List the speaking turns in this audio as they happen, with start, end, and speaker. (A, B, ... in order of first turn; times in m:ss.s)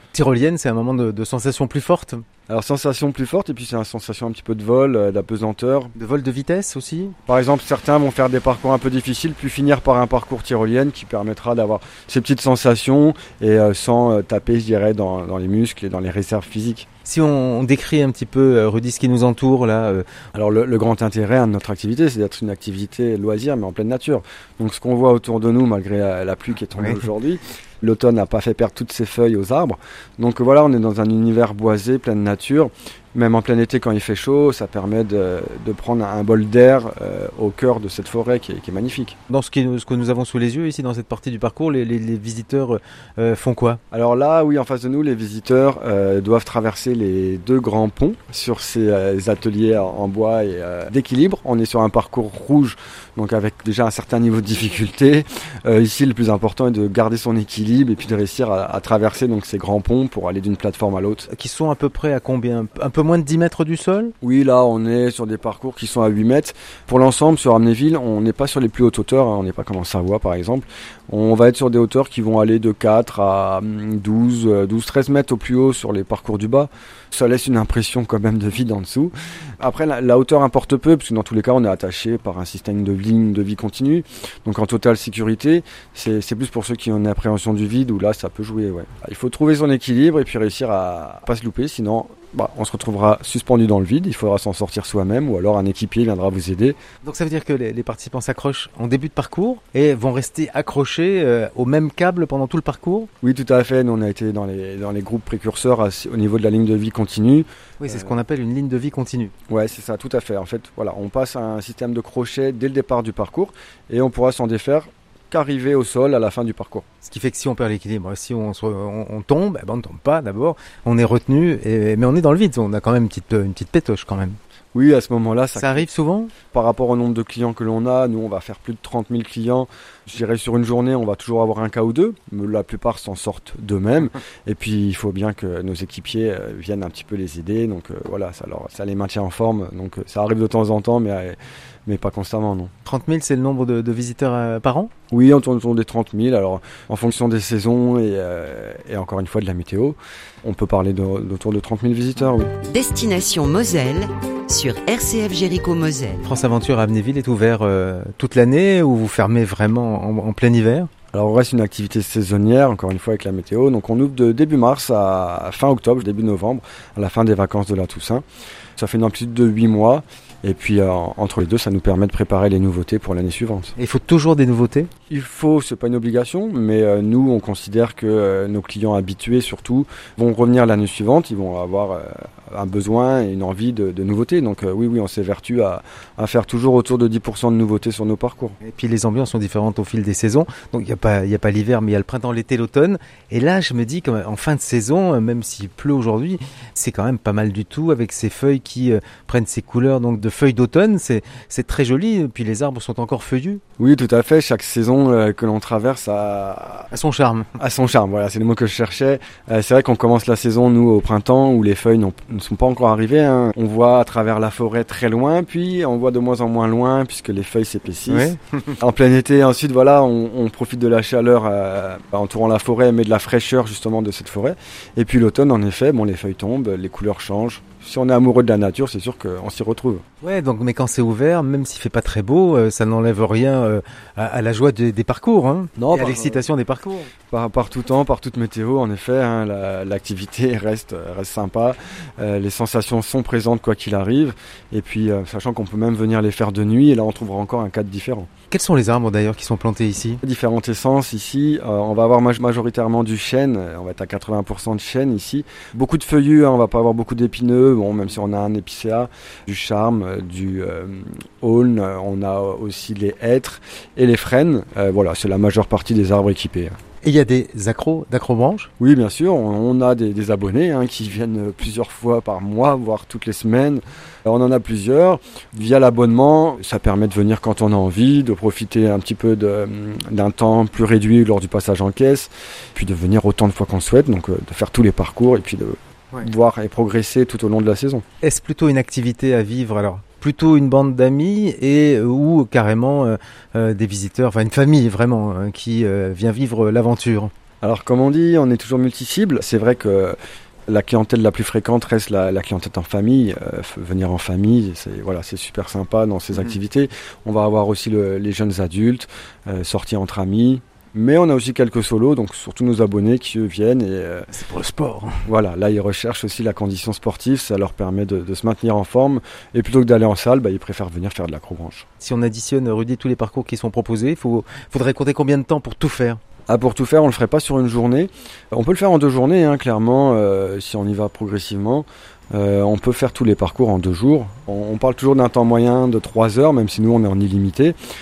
0:00.1-0:02.2 A
0:02.5-0:05.9 B
0:05.9-0:07.2 A
0:07.3-0:16.8 B
0:17.0-0:20.0 A
0:20.3-0:39.2 B
0:26.8-0:27.1 A
0:39.3-0:43.8 A
0:43.9-1:01.3 B
1:01.3-1:04.1 A
1:04.2-1:36.8 B
1:37.0-1:43.1 A
1:43.2-1:48.2 B
1:47.8-1:49.3 A
1:49.5-1:56.8 B
1:57.0-2:04.4 A
2:04.7-2:05.9 B
2:05.5-2:06.3 A
2:06.5-2:22.7 B
2:22.8-2:24.9 A
2:25.1-2:32.5 B
2:32.7-2:36.2 C
2:36.2-2:40.9 A
2:41.1-2:48.2 B
2:48.8-2:53.7 B
2:53.8-2:54.9 A
2:55.1-3:08.6 B
3:08.6-3:23.6 A
3:23.8-3:26.9 B
3:26.9-3:27.5 A
3:27.6-3:50.0 B
3:38.1-3:38.8 A
3:50.2-3:57.1 A
3:55.8-3:56.4 B
3:57.3-4:08.3 B
4:08.5-4:10.2 A
4:10.2-4:26.8 B
4:27.0-4:28.7 A
4:28.8-4:48.0 B
4:48.2-4:57.3 A
4:57.6-5:00.2 B
5:00.7-5:14.3 B
5:14.3-5:15.2 A
5:15.2-5:21.8 B
5:22.0-5:26.2 A
5:26.5-5:37.8 B